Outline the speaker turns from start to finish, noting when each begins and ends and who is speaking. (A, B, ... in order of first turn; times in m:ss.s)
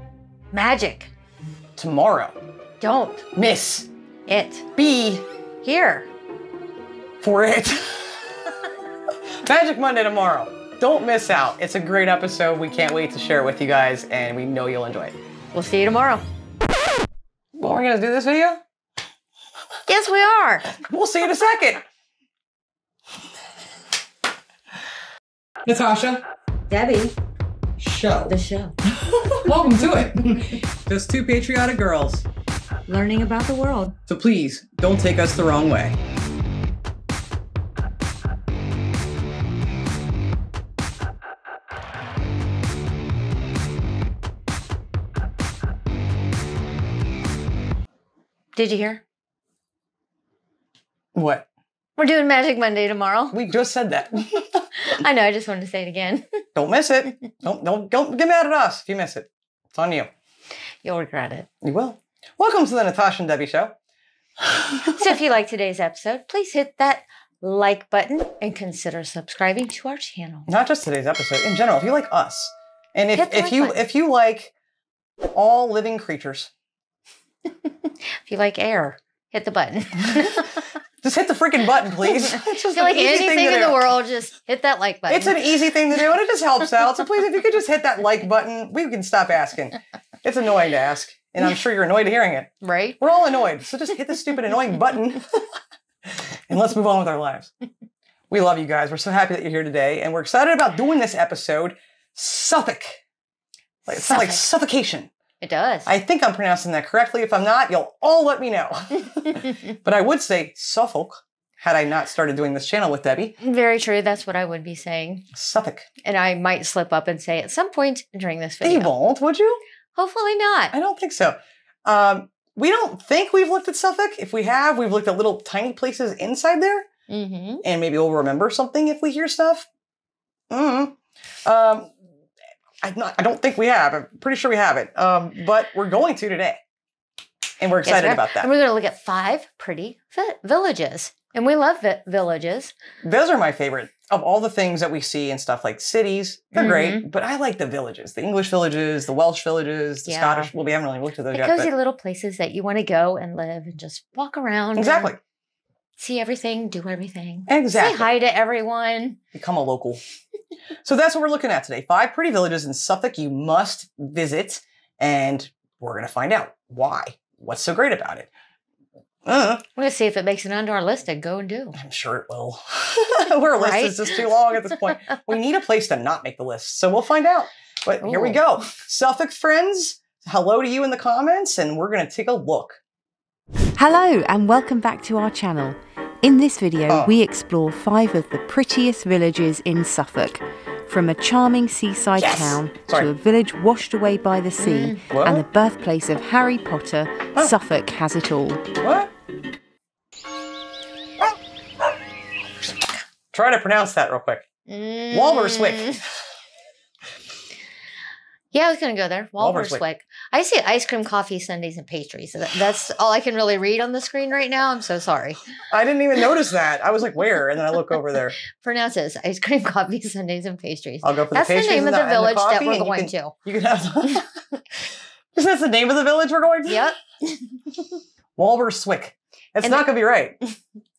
0:00.5-0:01.1 A
0:01.8-0:02.4 B
0:02.8-0:03.2 A
0:03.3-0:03.9 B
0:04.3-0:04.7 A
0:04.7-0:05.2 B
0:05.6-0:06.1 A
0:07.2-0:08.3 B
0:09.4-0:15.2 B
0:15.5-0:16.2 A
0:17.6-0:18.6 B
0:19.9-0:20.7 A
0:20.7-0:21.8 B
0:25.6-0:26.2 B
0:26.7-0:27.2 A
0:27.8-0:28.3 B
0:28.3-0:28.8 A
0:29.0-0:32.2 B
0:32.9-0:34.0 A
0:34.1-0:36.0 B
0:48.5-0:49.0 A
0:51.1-0:51.4 B
0:52.0-0:53.4 A
0:53.3-0:54.6 B
0:54.8-0:56.4 A
0:56.5-1:00.1 B
1:00.8-1:01.5 A
1:01.6-1:03.7 B
1:04.4-1:05.0 B
1:04.8-1:10.5 A
1:10.5-1:14.5 B
1:13.1-1:13.8 A
1:15.3-1:16.5 B
1:17.6-1:20.6 A
1:21.0-1:23.9 B
1:22.1-1:25.5 A
1:25.1-1:35.5 B
1:32.6-1:33.0 A
1:36.0-1:37.5 B
1:38.3-1:43.0 B
1:43.9-1:45.1 B
1:43.9-1:44.4 A
1:45.4-1:45.9 A
1:45.8-1:53.4 B
1:53.4-1:55.2 A
1:55.3-1:55.8 B
1:56.0-1:58.9 A
1:58.6-1:59.6 B
1:59.9-2:00.7 A
2:00.7-2:06.9 B
2:07.1-2:07.6 A
2:07.6-2:09.7 B
2:10.5-2:11.9 B
2:12.8-2:16.6 B
2:17.6-2:18.5 B
2:17.8-2:22.7 A
2:23.0-2:31.7 B
2:26.5-2:27.0 A
2:30.0-2:30.5 A
2:31.3-2:35.1 A
2:34.8-2:35.2 B
2:36.0-2:39.2 A
2:37.5-2:38.1 B
2:39.3-2:40.0 B
2:40.8-2:48.3 B
2:49.2-2:49.6 B
2:49.8-2:51.8 A
2:51.8-3:02.8 B
2:53.5-2:54.2 A
2:58.0-2:58.4 A
3:03.8-3:18.6 C
3:12.2-3:13.1 B
3:14.6-3:15.0 A
3:15.1-3:15.4 B
3:18.8-3:19.1 B
3:23.3-3:24.4 B
3:24.7-3:26.0 A
3:25.1-3:26.0 B
3:28.5-3:35.4 A
3:29.4-3:29.8 B
3:35.7-3:38.3 B
3:38.5-3:43.3 A
3:41.0-3:44.3 B
3:45.3-3:46.9 B
3:46.7-3:47.0 A
3:48.4-3:50.4 B